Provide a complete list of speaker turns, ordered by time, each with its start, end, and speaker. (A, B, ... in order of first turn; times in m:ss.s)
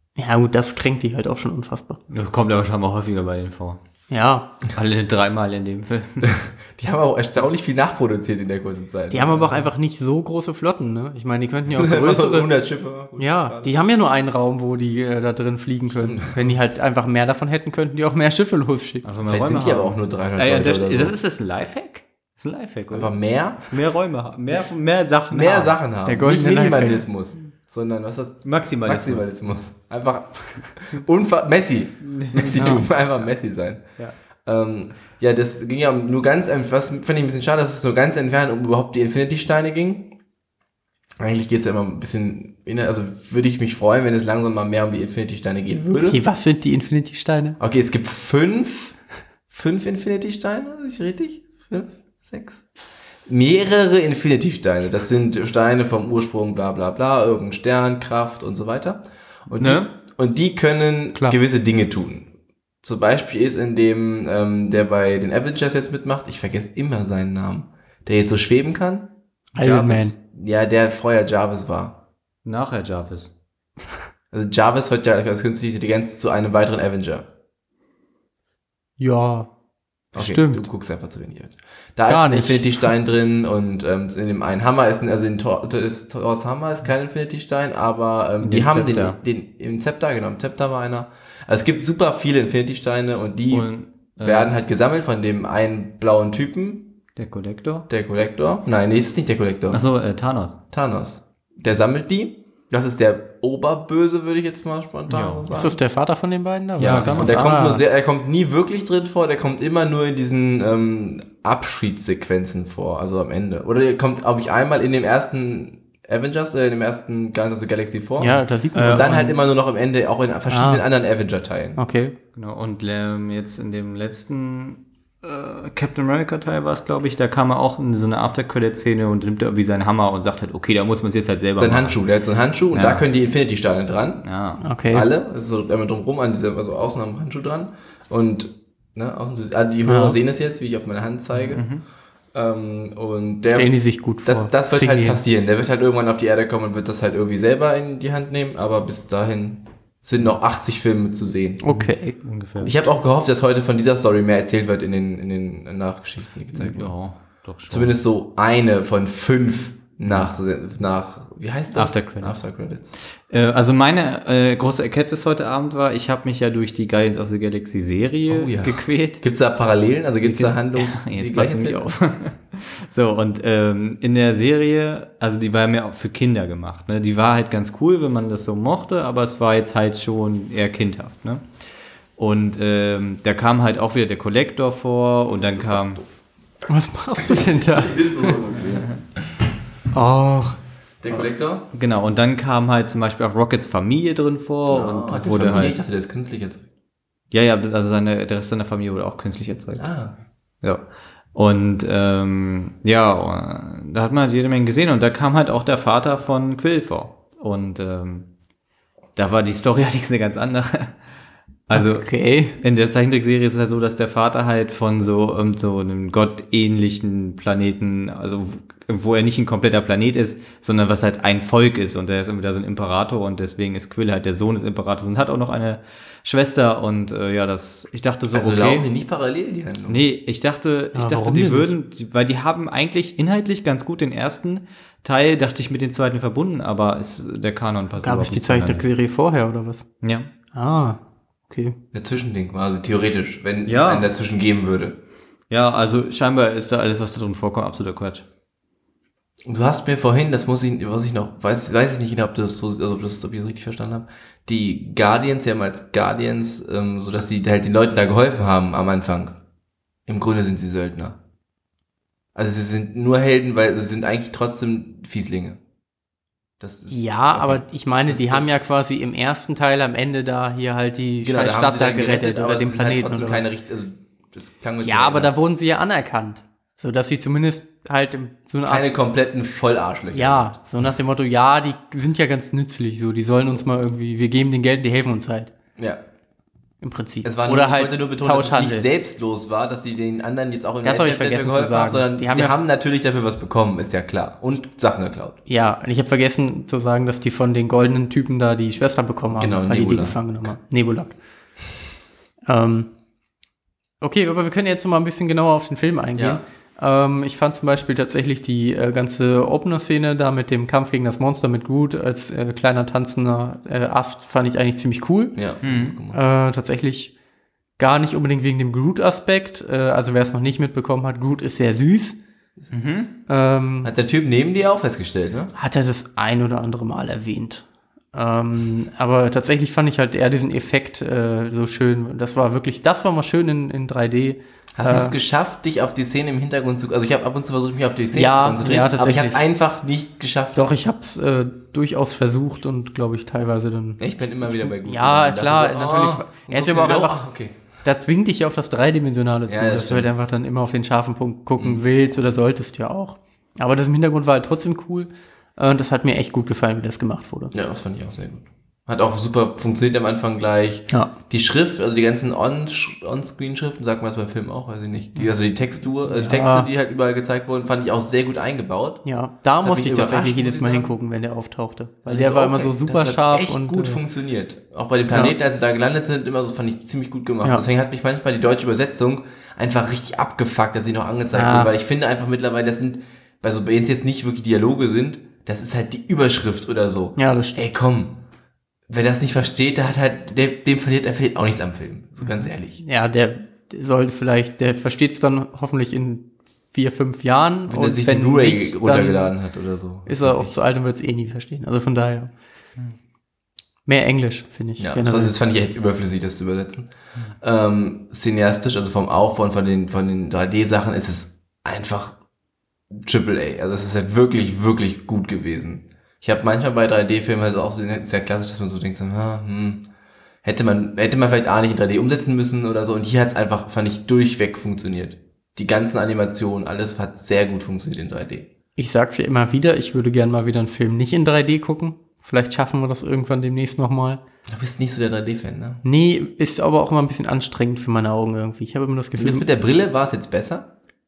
0:00.2-0:02.0 A
0:02.1-0:03.8 B
0:04.1-0:04.5 A
0:04.7-0:06.4 B
0:06.2-0:09.7 C
0:09.1-0:12.5 A
0:11.7-0:13.8 C
0:13.2-0:19.0 A
0:15.9-0:16.6 C
0:19.0-0:25.8 B
0:19.2-0:21.1 C
0:22.9-0:23.8 C
0:25.3-0:33.8 C
0:26.0-0:27.0 A
0:28.4-0:29.4 B
0:32.0-0:32.9 B
0:32.6-0:32.8 A
0:34.4-0:40.1 C
0:41.2-0:46.2 C
0:46.0-0:47.6 A
0:47.6-0:49.0 C
0:49.5-0:52.6 C
0:53.2-1:02.3 C
0:59.6-0:59.9 B
1:02.8-1:09.1 C
1:09.5-1:10.1 A
1:09.6-1:10.1 B
1:10.3-1:12.0 C
1:12.4-1:13.3 B
1:14.3-1:17.2 C
1:19.0-1:19.5 A
1:20.1-1:20.6 A
1:20.1-1:33.7 C
1:22.1-1:22.9 A
1:28.4-1:29.2 B
1:33.5-1:34.5 B
1:34.2-1:36.9 C
1:37.2-1:37.9 B
1:37.9-1:39.8 C
1:39.7-1:40.6 B
1:40.7-1:45.8 C
1:45.1-1:45.5 B
1:45.5-1:47.8 A
1:46.8-1:47.4 B
1:46.8-2:01.8 C
1:58.2-1:59.3 A
1:58.7-1:59.2 B
2:00.5-2:00.8 A
2:01.8-2:02.1 A
2:02.4-2:12.0 B
2:11.6-2:14.2 C
2:12.7-2:13.0 B
2:14.2-2:14.6 B
2:14.6-2:15.1 A
2:14.9-2:21.6 C
2:19.9-2:20.2 A
2:21.4-2:21.8 B
2:22.3-2:23.7 C
2:23.5-2:25.2 A
2:24.2-2:31.6 C
2:31.6-2:32.2 A
2:31.7-2:32.8 B
2:32.6-2:36.9 C
2:36.5-2:37.9 B
2:37.7-2:42.9 C
2:41.7-2:42.4 B
2:43.3-2:49.2 B
2:48.3-2:51.9 C
2:50.2-3:01.5 B
3:02.2-3:06.0 B
3:05.4-3:06.1 C
3:06.7-3:08.4 A
3:07.2-3:08.9 C
3:08.6-3:09.0 B
3:09.9-3:10.6 A
3:11.0-3:11.7 C
3:11.7-3:15.8 B
3:14.7-3:16.6 C
3:17.3-3:19.9 B
3:19.8-3:20.1 C
3:21.4-3:28.3 B
3:29.2-3:31.0 B
3:31.7-3:48.9 B
3:31.7-3:32.6 A
3:48.3-3:50.0 C
3:49.9-3:58.9 B
3:50.9-3:51.7 A
3:58.0-3:59.8 A
4:00.0-4:00.3 B
4:00.5-4:01.8 A
4:01.9-4:05.0 C
4:03.7-4:04.1 B
4:05.5-4:08.2 B
4:09.4-4:19.4 C
4:20.1-4:21.2 C
4:22.4-4:25.6 C
4:26.6-4:28.6 C
4:26.9-4:33.5 A
4:31.2-4:35.3 C
4:34.8-4:38.9 A
4:38.7-4:40.5 C
4:40.1-4:45.5 A
4:46.8-4:48.9 A
4:47.2-4:55.4 C
4:50.8-4:52.6 A
4:55.5-5:01.1 A
4:59.3-5:00.5 C
5:02.5-5:02.9 A
5:04.0-5:15.4 A
5:06.2-5:06.4 C
5:15.4-5:16.2 C
5:15.6-5:16.0 B
5:16.1-5:17.1 A
5:17.8-5:22.2 A
5:22.7-5:23.1 B
5:23.3-5:23.9 A
5:23.8-5:25.5 C
5:25.5-5:35.1 A
5:34.8-5:40.7 C
5:38.1-5:39.4 A
5:40.5-5:47.2 A
5:44.0-5:47.6 C
5:47.8-5:57.5 A
5:49.5-5:50.1 C
5:57.5-6:09.0 C
6:06.1-6:06.7 A
6:09.0-6:14.0 A
6:09.6-6:11.0 C
6:12.0-6:28.2 C
6:21.3-6:21.7 A
6:27.2-6:27.6 A
6:28.9-6:32.8 C
6:32.8-6:39.3 A
6:37.7-6:40.5 C
6:40.0-6:42.3 A
6:43.8-6:45.3 A
6:44.8-6:52.2 C
6:52.9-6:59.8 C
7:00.4-7:08.5 C
7:08.8-7:14.2 A
7:14.5-7:15.8 C
7:15.8-7:19.5 A
7:19.2-7:20.7 C